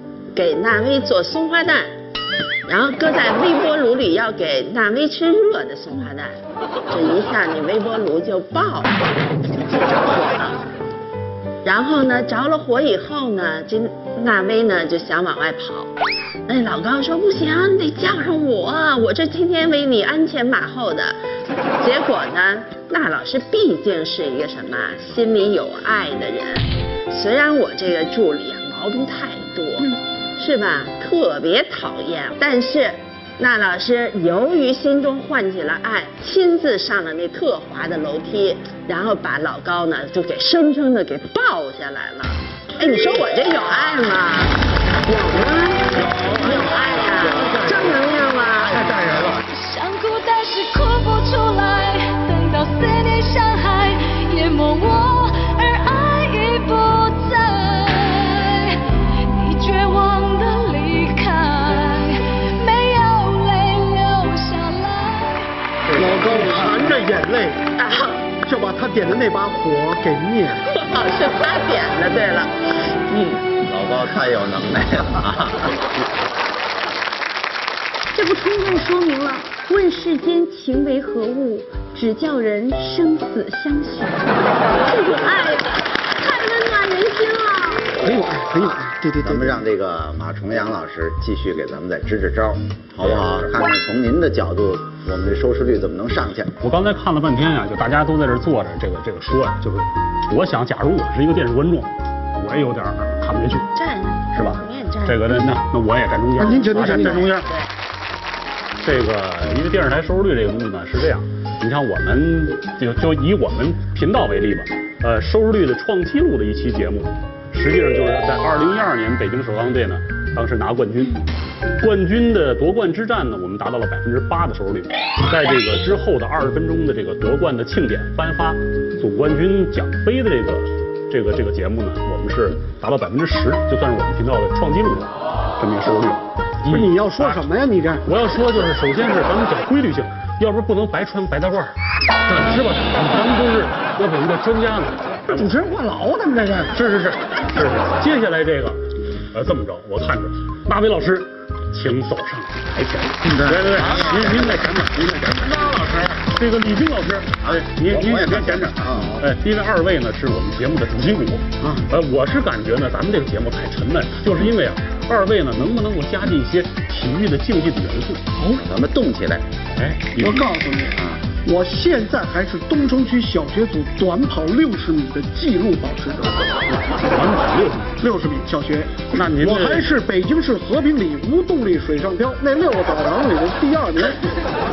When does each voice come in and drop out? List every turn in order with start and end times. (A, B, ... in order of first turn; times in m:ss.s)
0:00.3-0:02.0 A
0:02.7-0:06.4 A
0:06.9-0:10.7 A
0:11.6-0:15.9 A
0:16.5-0:21.2 A
0:21.8-0:44.6 A
0:45.1-0:48.8 A
0:48.8-0:49.3 B
0:49.4-0:58.8 C
0:59.4-1:05.5 C
1:05.9-1:06.4 B
1:06.0-1:07.6 D
1:07.8-1:08.2 A
1:08.4-1:10.6 D
1:10.7-1:13.4 A
1:13.6-1:15.7 B
1:18.1-1:27.9 E
1:28.0-1:29.6 D
1:29.2-1:36.5 B
1:36.6-1:43.7 F
1:43.8-1:45.2 A
1:44.3-1:47.5 F
1:46.4-1:47.3 D
1:46.9-1:47.7 A
1:48.8-2:01.2 F
2:01.8-2:17.4 F
2:16.7-2:18.0 D
2:18.0-2:21.7 F
2:22.3-2:25.5 F
2:25.3-2:26.7 D
2:26.7-2:28.8 F
2:29.3-2:48.2 F
2:33.4-2:34.4 B
2:37.4-2:39.2 B
2:41.6-2:41.9 D
2:48.5-2:49.5 B
2:49.7-2:50.5 F
2:50.2-2:56.4 D
2:51.0-2:51.2 B
2:56.7-2:58.0 F
2:58.0-3:04.2 D
2:59.1-2:59.9 F